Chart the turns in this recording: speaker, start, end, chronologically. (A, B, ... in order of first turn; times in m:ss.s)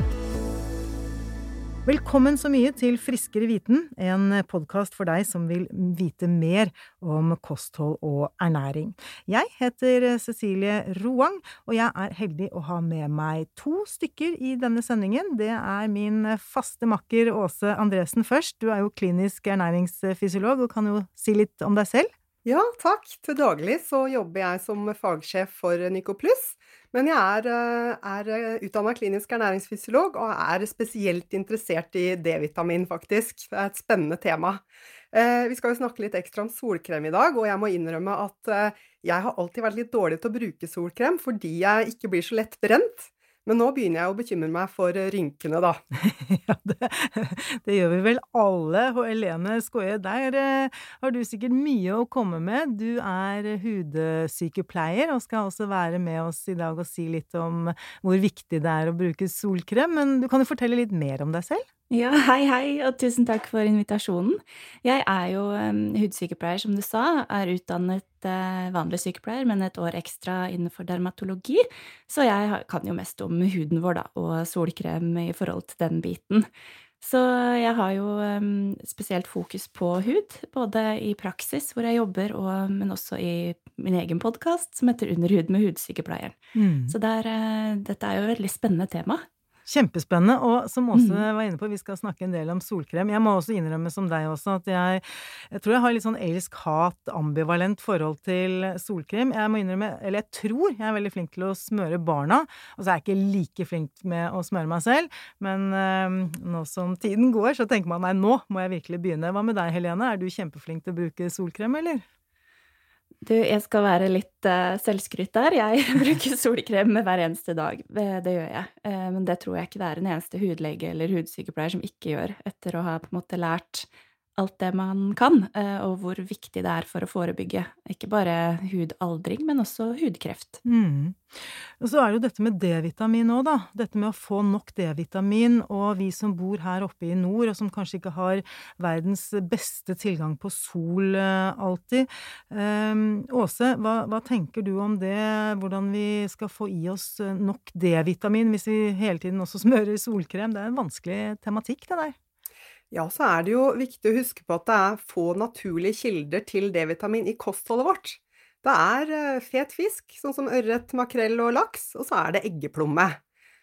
0:01.8-0:22.1 A
0:22.4-0:45.8 B
0:45.9-1:01.6 A
1:01.9-1:16.4 C
1:17.0-1:26.3 C
1:26.5-1:27.0 A
1:26.9-1:29.2 C
1:29.7-1:52.0 A
1:30.9-1:31.2 C
1:53.2-2:10.6 C
2:10.6-2:32.1 A
2:32.9-2:43.2 B